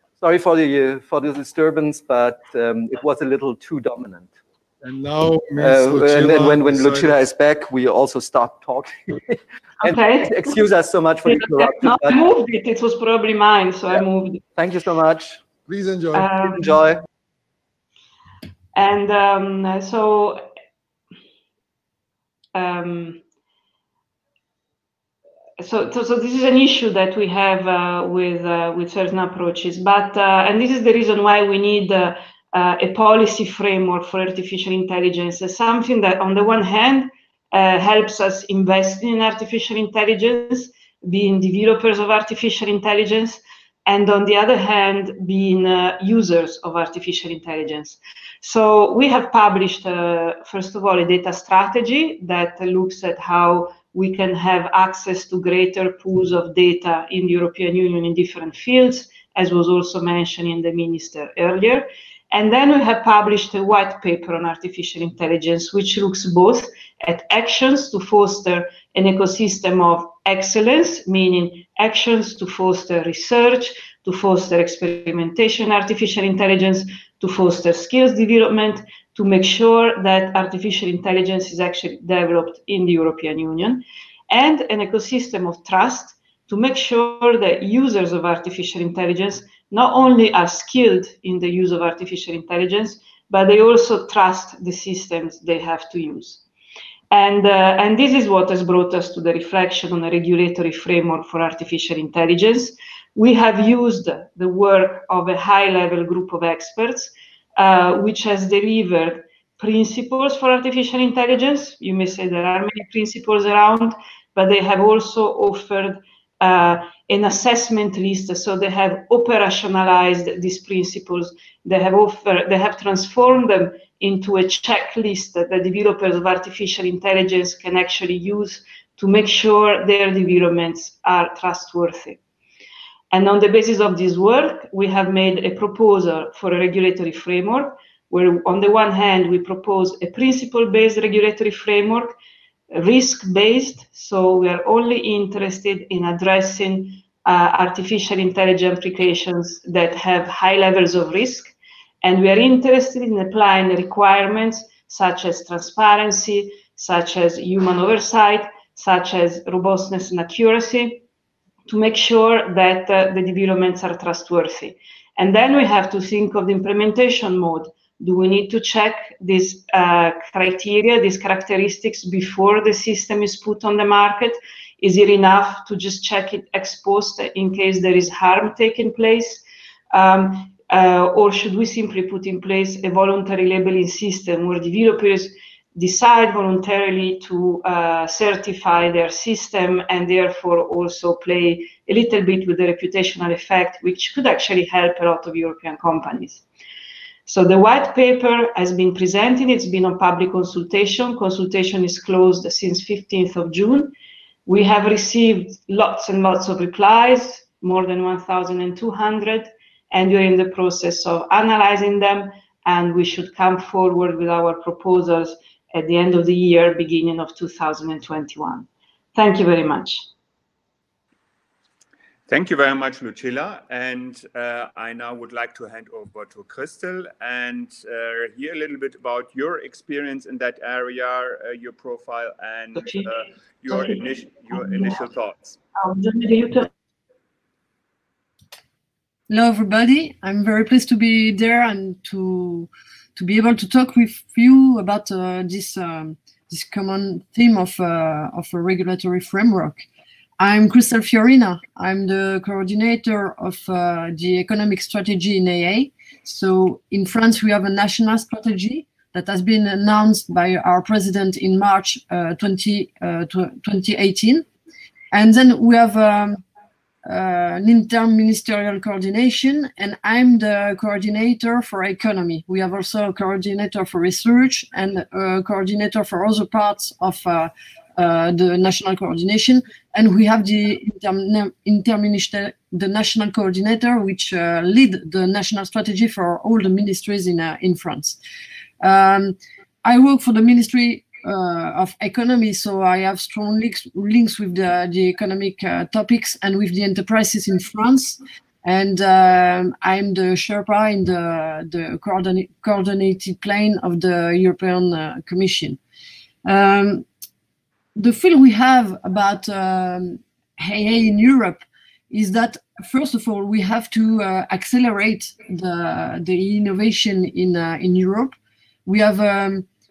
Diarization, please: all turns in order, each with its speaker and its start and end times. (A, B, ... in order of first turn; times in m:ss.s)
0:00.2-0:04.3 A
0:04.8-0:07.2 B
0:05.6-0:12.2 A
0:09.8-0:10.4 C
0:11.2-0:14.4 C
0:14.5-0:15.4 A
0:15.6-0:16.3 B
0:16.1-0:16.8 C
0:16.4-0:17.0 A
0:18.7-0:20.4 C
0:22.5-0:23.2 C
0:25.6-1:36.4 C
1:37.1-2:12.2 C
2:13.1-2:22.1 C
2:22.7-2:41.0 C
2:41.7-3:16.4 C
3:17.2-3:23.9 C
3:24.4-3:40.1 C
3:42.3-3:55.6 D
3:52.8-3:53.1 C
3:53.7-3:55.0 C
3:55.8-3:56.7 C
3:59.3-4:09.8 E
4:10.4-4:24.4 E
4:25.1-4:26.4 E
4:27.0-4:48.2 E
4:48.8-5:05.8 E
5:06.4-5:07.0 E
5:08.0-5:19.6 E